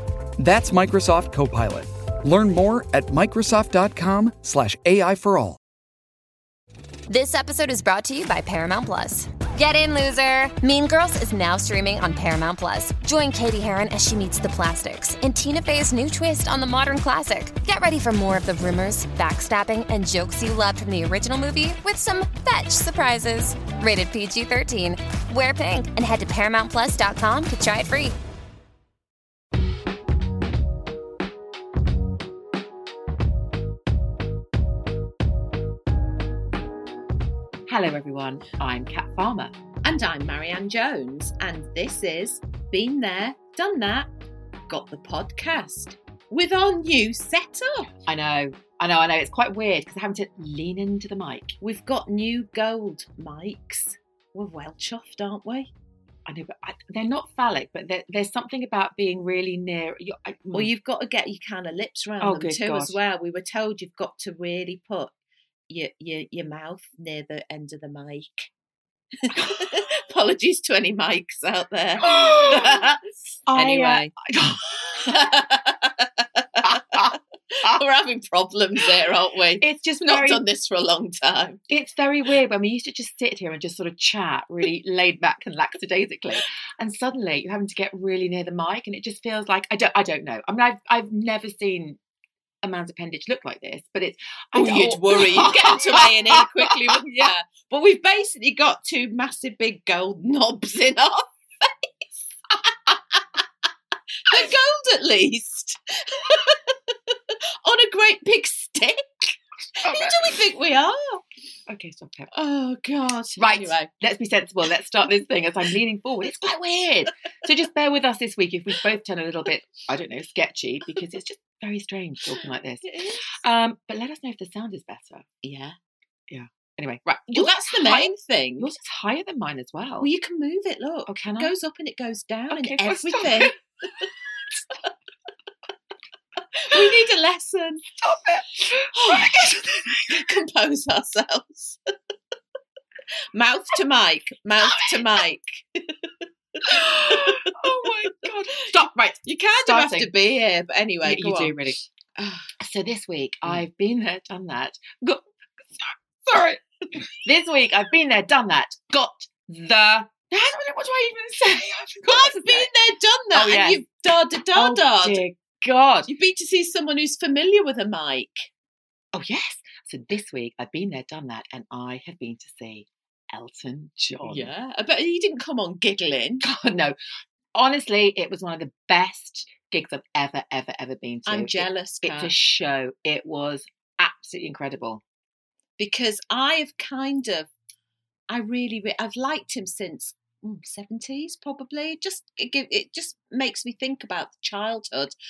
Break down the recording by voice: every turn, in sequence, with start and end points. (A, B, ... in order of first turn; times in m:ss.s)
0:00.4-0:05.6 A
0:07.1-0:28.2 B
0:37.7-0:39.6 C
0:39.8-0:44.1 D
0:44.7-0:47.9 D
0:48.1-0:51.6 C
0:51.6-0:55.7 D
0:56.3-1:00.7 C
1:00.5-1:05.1 D
1:02.2-1:03.0 C
1:05.7-1:08.5 D
1:09.2-1:13.0 D
1:09.4-1:09.7 C
1:12.0-1:13.0 C
1:13.5-1:15.3 C
1:13.5-1:14.1 D
1:15.0-1:21.6 D
1:16.6-1:17.8 C
1:19.6-1:20.4 C
1:21.7-1:32.0 C
1:32.6-1:37.0 C
1:34.6-1:41.8 D
1:42.9-1:43.4 D
1:44.3-1:51.2 D
1:49.8-1:50.4 C
1:51.7-1:52.3 C
1:52.3-1:53.9 D
1:53.4-2:05.2 C
2:02.3-2:03.4 D
2:05.4-2:05.8 D
2:06.3-2:10.1 C
2:07.3-2:08.7 D
2:10.0-2:14.1 D
2:11.1-2:11.5 C
2:12.5-2:13.6 C
2:16.6-2:17.9 D
2:18.0-2:20.3 C
2:18.9-2:21.8 D
2:23.3-2:27.9 D
2:24.6-2:25.2 C
2:26.7-2:30.1 C
2:29.2-2:31.6 D
2:31.0-2:31.8 C
2:32.2-2:32.5 D
2:32.6-2:35.2 C
2:35.7-2:36.6 C
2:37.2-2:42.7 C
2:42.1-2:45.2 D
2:43.3-2:43.8 C
2:44.5-2:46.1 C
2:46.1-2:48.5 D
2:49.1-2:54.5 C
2:54.2-2:56.5 D
2:56.4-2:57.0 C
2:57.5-3:05.0 C
3:01.3-3:02.3 D
3:05.8-3:07.5 D
3:08.3-3:15.1 D